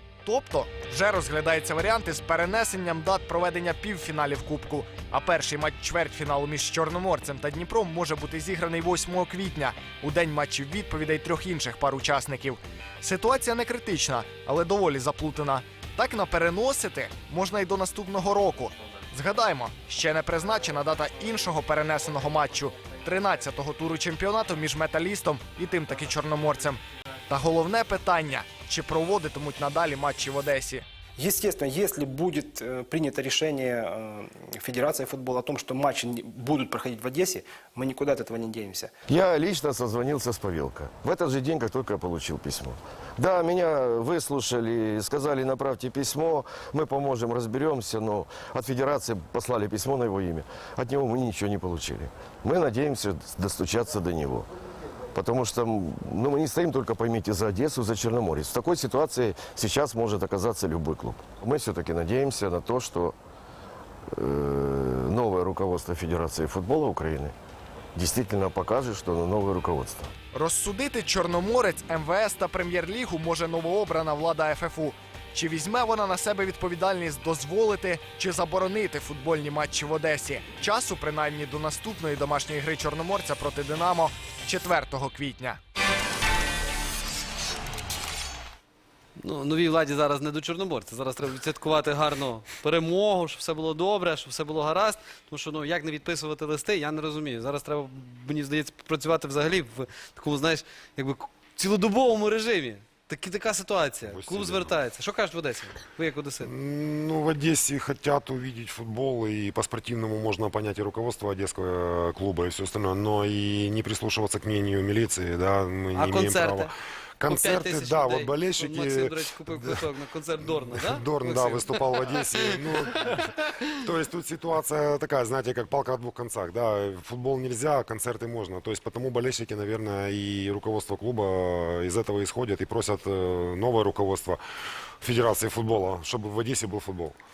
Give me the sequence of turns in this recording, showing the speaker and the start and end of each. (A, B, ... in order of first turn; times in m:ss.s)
0:00.2-0:30.8 A
0:31.2-0:38.9 B
0:39.1-0:54.5 C
0:55.1-1:03.2 C
1:04.1-1:07.3 C
1:07.9-1:10.1 C
1:10.3-1:25.6 A
1:29.2-1:46.5 D
1:44.0-1:44.8 E
1:46.4-1:56.7 E
1:56.0-1:56.7 D
1:57.2-1:59.8 E
1:57.2-2:02.6 D
2:00.5-2:14.4 E
2:15.0-2:17.1 E